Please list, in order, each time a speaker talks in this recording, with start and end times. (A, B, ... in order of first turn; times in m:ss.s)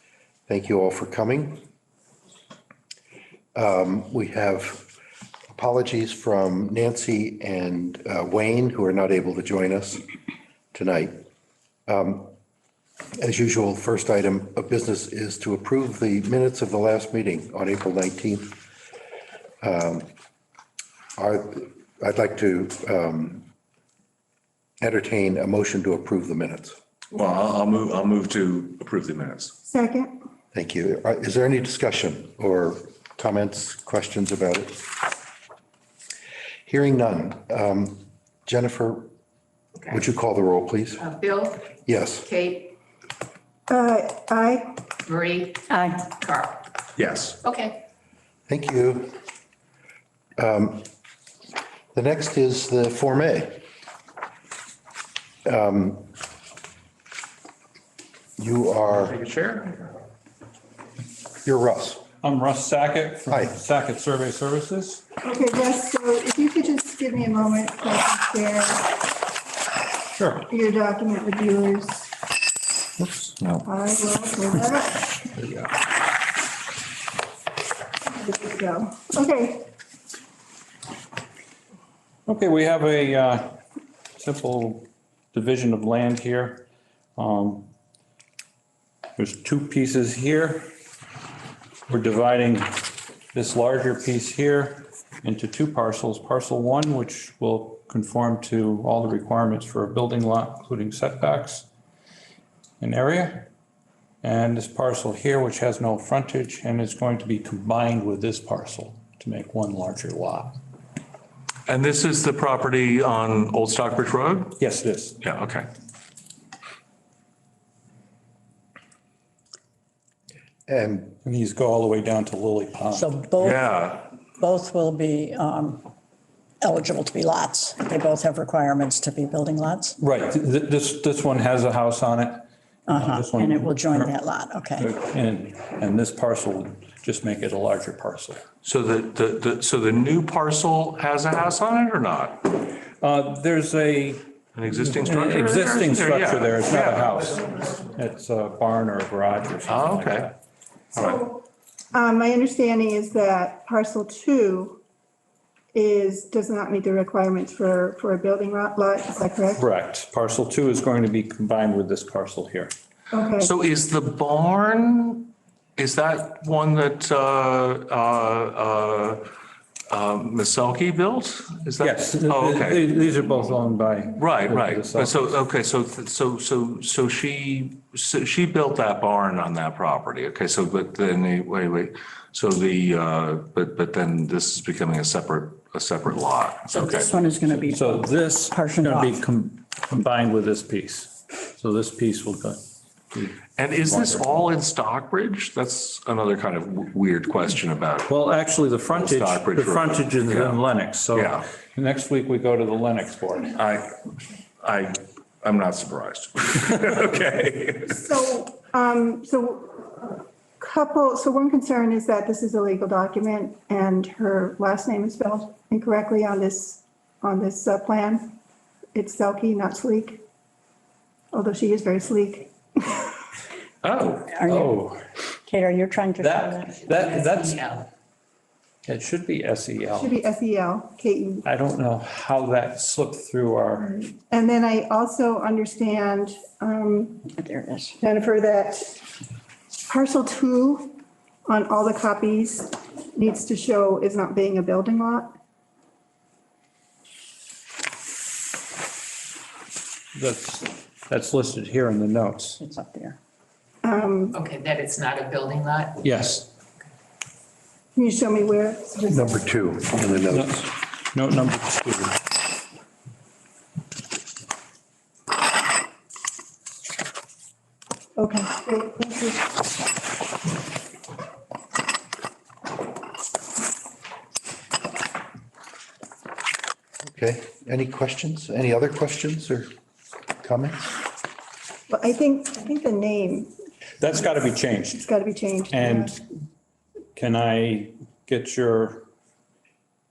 0:00.5-0:01.6 A
0:03.5-0:04.9 A
0:05.5-0:10.0 A
0:10.7-0:11.2 A
0:11.9-0:12.3 A
0:13.2-0:18.6 A
0:19.6-0:20.1 A
0:21.2-0:23.4 A
0:24.8-0:26.8 A
0:27.1-0:29.5 B
0:29.6-0:30.1 C
0:30.5-0:34.8 A
0:36.6-0:39.1 A
0:39.9-0:41.0 A
0:41.0-0:41.6 D
0:41.8-0:42.3 A
0:42.2-0:42.7 D
0:43.7-0:44.8 C
0:45.0-0:45.6 D
0:45.7-0:46.2 E
0:46.2-0:46.6 D
0:47.0-0:47.4 B
0:47.4-0:47.8 D
0:48.5-0:49.1 A
0:50.4-0:50.8 A
0:51.9-0:53.6 A
0:55.4-0:56.1 A
0:58.4-0:59.2 A
0:58.9-1:00.0 B
1:01.4-1:02.1 A
1:02.2-1:05.0 F
1:03.3-1:03.6 A
1:05.2-1:09.0 C
1:10.2-1:10.5 F
1:10.5-1:12.1 C
1:13.0-1:13.6 B
1:13.6-1:15.2 C
1:18.1-1:19.7 C
1:22.3-1:23.6 F
1:24.2-1:27.7 F
1:29.2-1:30.7 F
1:31.9-1:32.7 F
1:33.3-1:41.7 F
1:42.8-1:43.5 F
1:44.2-1:50.6 F
1:51.6-1:54.6 B
1:54.6-1:55.2 F
1:55.2-1:55.7 B
2:00.7-2:01.1 A
2:01.2-2:03.2 F
2:02.9-2:03.6 E
2:03.4-2:04.1 B
2:04.4-2:05.9 E
2:06.6-2:10.0 E
2:10.0-2:14.1 F
2:12.9-2:14.9 E
2:14.8-2:18.4 F
2:18.6-2:22.6 B
2:23.0-2:24.3 F
2:24.5-2:27.4 B
2:24.8-2:30.4 F
2:29.7-2:30.3 B
2:30.9-2:34.8 C
2:35.7-2:39.6 C
2:39.6-2:42.7 F
2:43.1-2:43.5 C
2:43.4-2:49.2 B
2:49.9-2:52.9 B
2:51.8-2:55.1 F
2:54.2-3:07.2 B
3:06.8-3:09.2 E
3:07.7-3:12.6 F
3:13.1-3:14.5 F
3:13.6-3:18.1 B
3:18.0-3:23.6 F
3:18.9-3:21.5 B
3:23.6-3:24.0 B
3:24.6-3:28.0 B
3:27.8-3:38.4 C
3:38.9-3:40.2 C
3:41.3-3:43.2 C
3:43.8-3:44.4 B
3:44.3-3:44.8 E
3:44.5-3:45.0 F
3:45.4-3:47.0 E
3:46.2-3:47.8 F
3:47.1-3:47.6 D
3:48.8-3:50.2 F
3:49.9-3:51.4 C
3:51.4-3:54.1 F
3:54.3-3:57.3 C
3:57.4-3:58.0 E
3:58.0-3:59.0 C
3:59.9-4:05.3 C
4:10.1-4:12.6 F
4:12.6-4:13.2 E
4:13.8-4:14.4 C
4:14.3-4:16.0 D
4:16.0-4:16.5 F
4:18.0-4:19.5 C
4:19.1-4:20.7 A
4:20.3-4:22.2 F
4:28.2-4:29.6 C
4:37.0-4:39.7 A
4:40.4-4:40.9 A
4:41.9-4:43.5 C
4:44.0-4:45.1 F
4:44.9-4:46.2 C
4:45.7-4:46.2 F
4:47.2-4:49.1 F